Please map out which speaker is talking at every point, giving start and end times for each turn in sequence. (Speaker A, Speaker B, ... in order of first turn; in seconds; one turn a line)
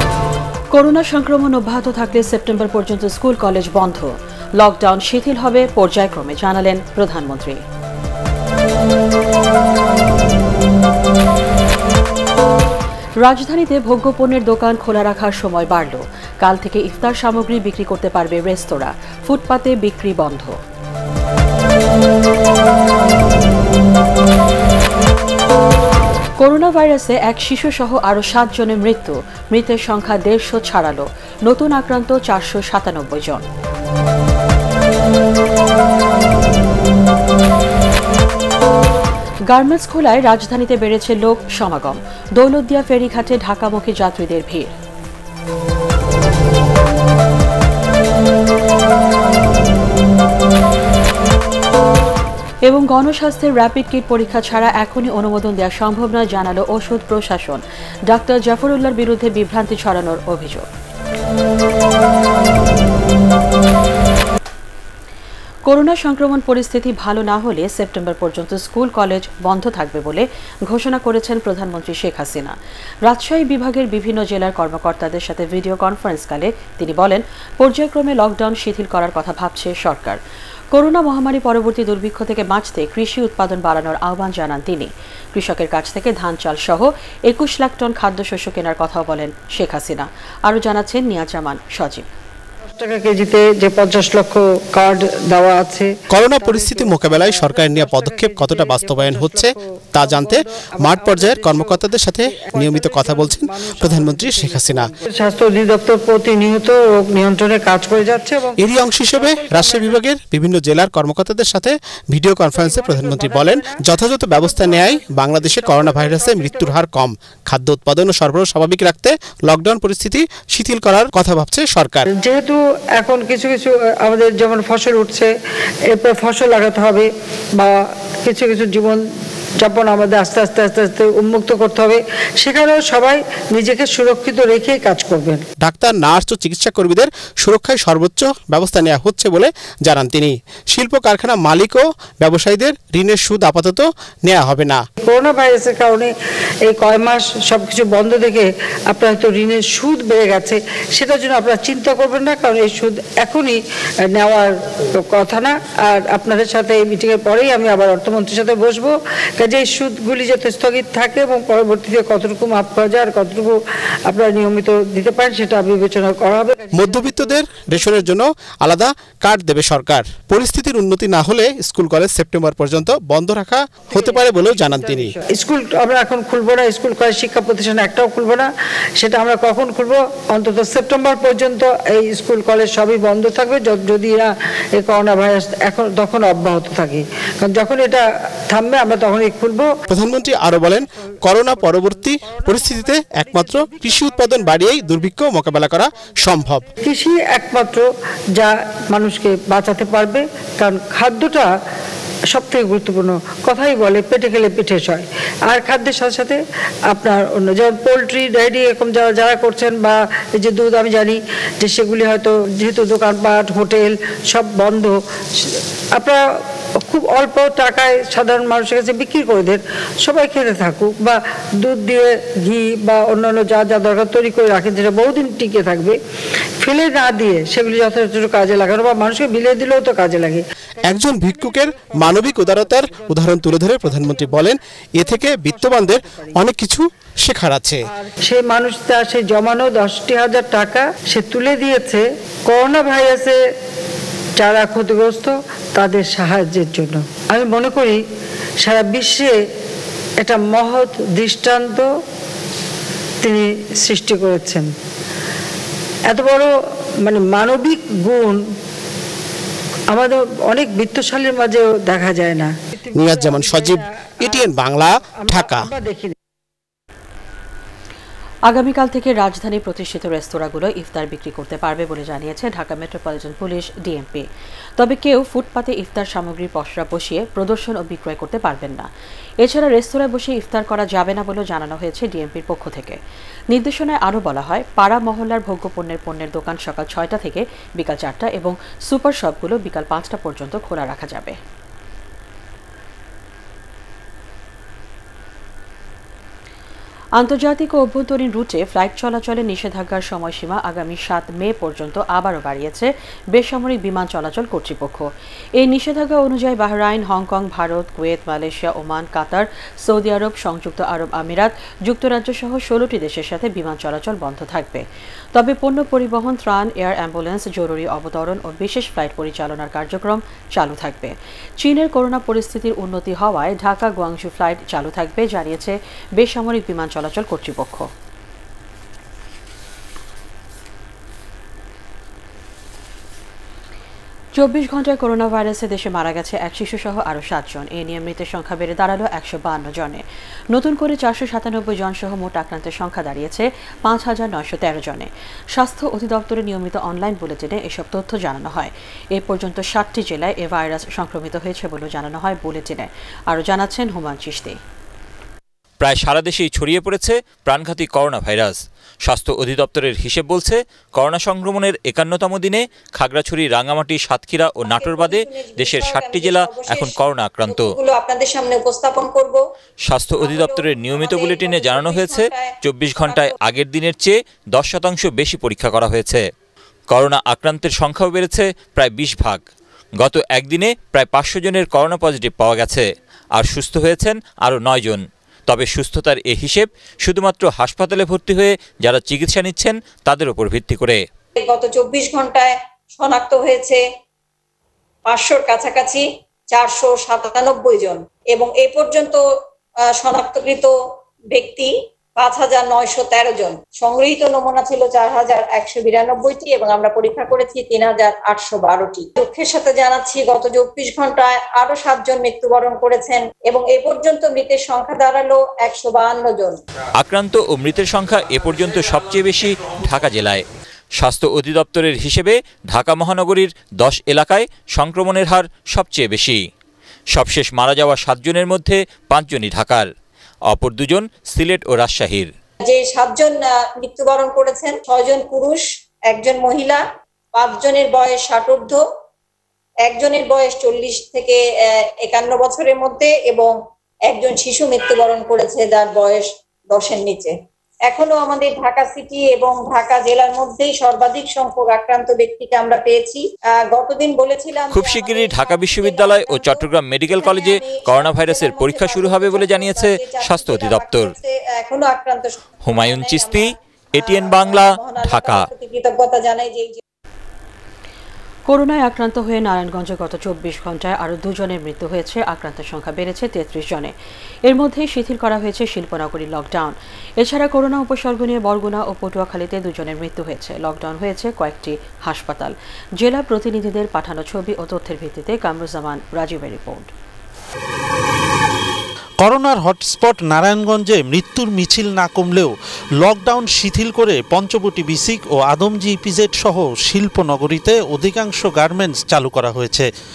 Speaker A: 0.7-7.6
Speaker A: 13.2-20.6
Speaker A: 26.4-33.5
Speaker A: 39.5-44.7
Speaker A: 52.6-60.7
Speaker A: 65.7-80.2
Speaker A: 80.7-92.0
Speaker B: 92.7-101.8
Speaker C: 96.1-104.9
Speaker B: 102.3-110.0
Speaker C: 108.6-122.0
Speaker B: 112.5-113.8
Speaker B: 114.4-116.7
Speaker B: 122.1-125.3
Speaker B: 125.9-129.0
Speaker B: 129.6-135.4
Speaker C: 135.6-144.8
Speaker B: 145.0-146.1
Speaker B: 146.7-163.6
Speaker B: 164.1-167.3
Speaker C: 166.7-175.2
Speaker B: 173.9-178.5
Speaker B: 179.0-189.8
Speaker C: 189.9-196.7
Speaker B: 192.3-192.9
Speaker B: 193.4-194.6
Speaker B: 196.7-197.8
Speaker B: 198.3-201.5
Speaker B: 202.3-206.4
Speaker B: 206.9-216.2
Speaker B: 216.8-226.0
Speaker B: 226.6-234.5
Speaker C: 230.8-237.8
Speaker B: 235.0-236.4
Speaker B: 238.0-243.4
Speaker B: 244.4-248.0
Speaker B: 248.6-249.3
Speaker B: 250.2-251.9
Speaker B: 253.2-254.7
Speaker B: 256.1-256.5
Speaker B: 257.0-258.4
Speaker B: 259.9-264.5
Speaker C: 262.9-265.7
Speaker B: 265.2-266.1
Speaker A: 268.5-274.2
Speaker A: 274.8-278.9
Speaker A: 279.4-283.0
Speaker A: 283.5-291.4
Speaker A: 297.2-327.9
Speaker A: 334.4-354.6
Speaker D: 355.8-367.7
Speaker E: 364.6-366.9
Speaker E: 367.5-369.4
Speaker D: 369.9-376.2
Speaker E: 370.2-373.3
Speaker D: 376.9-379.4
Speaker D: 380.0-391.0
Speaker E: 391.4-393.8
Speaker E: 395.1-399.2
Speaker E: 399.9-400.7
Speaker E: 401.3-416.6
Speaker D: 417.0-420.4
Speaker D: 421.0-426.4
Speaker D: 427.1-429.9
Speaker D: 430.5-432.3
Speaker E: 432.6-436.8
Speaker E: 437.3-438.8
Speaker E: 439.8-443.5
Speaker E: 444.1-447.3
Speaker E: 447.9-456.6
Speaker D: 454.7-461.1
Speaker E: 457.2-466.8
Speaker D: 462.6-465.5
Speaker A: 468.5-473.9
Speaker A: 474.4-486.9
Speaker F: 489.2-499.9